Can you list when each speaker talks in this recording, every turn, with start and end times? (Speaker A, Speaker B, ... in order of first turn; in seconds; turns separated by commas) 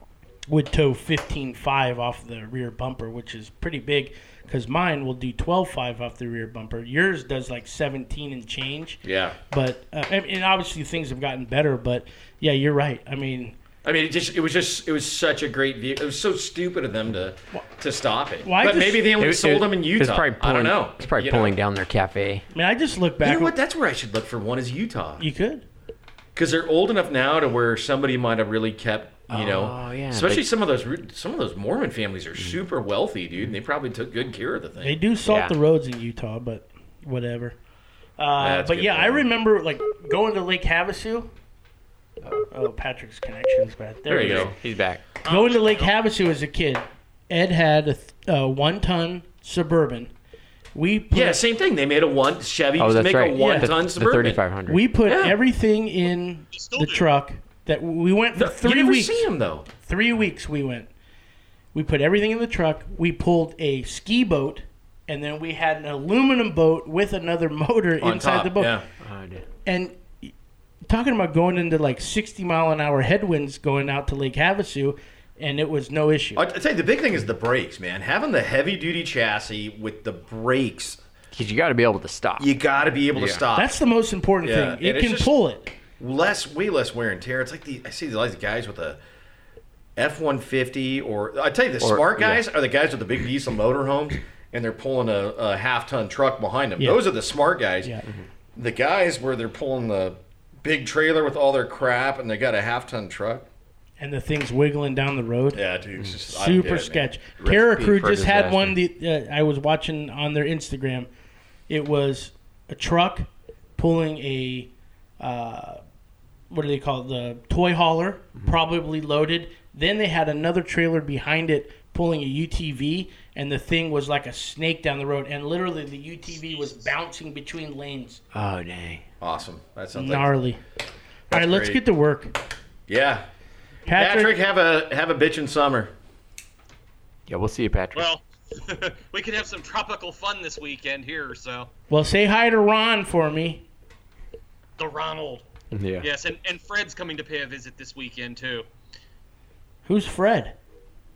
Speaker A: 0.5-13.6, Speaker B: 9.0-9.4, Speaker B: 13.8-21.6, Speaker A: 18.4-19.1, Speaker C: 19.2-22.4, Speaker A: 22.5-23.6, Speaker B: 23.2-25.2, Speaker A: 25.2-25.6, Speaker B: 26.4-35.0, Speaker C: 29.3-30.4, Speaker A: 34.8-37.6, Speaker C: 35.3-35.5, Speaker A: 38.2-41.3, Speaker B: 38.4-39.3, Speaker A: 42.5-44.5, Speaker B: 44.1-44.5, Speaker C: 44.1-45.0, Speaker D: 45.2-45.9, Speaker A: 45.2-50.1, Speaker A: 50.8-51.4, Speaker B: 51.1-54.4, Speaker C: 52.8-54.8, Speaker A: 53.4-53.7, Speaker A: 54.7-60.9, Speaker B: 55.0-55.4, Speaker D: 56.5-57.1, Speaker B: 58.4-59.7, Speaker A: 61.7-68.8, Speaker B: 68.0-68.9, Speaker C: 69.0-69.5, Speaker A: 69.7-70.3, Speaker A: 70.9-76.5, Speaker B: 76.4-81.0, Speaker C: 81.3-82.5, Speaker B: 82.4-83.7, Speaker C: 83.2-83.4, Speaker A: 83.5-85.8, Speaker B: 84.4-85.3, Speaker B: 86.0-89.0, Speaker B: 90.0-97.9, Speaker C: 91.8-92.4, Speaker A: 96.8-97.0, Speaker B: 98.5-103.5, Speaker A: 104.0-105.6, Speaker B: 105.5-107.1, Speaker A: 106.3-111.1, Speaker C: 107.4-108.8, Speaker A: 111.7-115.8, Speaker A: 116.5-128.2, Speaker D: 126.4-126.9, Speaker C: 128.3-129.0, Speaker B: 129.2-130.3, Speaker A: 129.9-130.6, Speaker B: 131.3-131.8, Speaker A: 131.3-132.4, Speaker B: 132.9-133.3, Speaker A: 133.9-134.4, Speaker B: 133.9-135.9, Speaker C: 137.3-138.1, Speaker D: 137.9-141.7, Speaker A: 141.9-143.7, Speaker D: 144.8-145.5, Speaker C: 145.7-146.1, Speaker D: 146.0-148.7, Speaker A: 149.8-150.6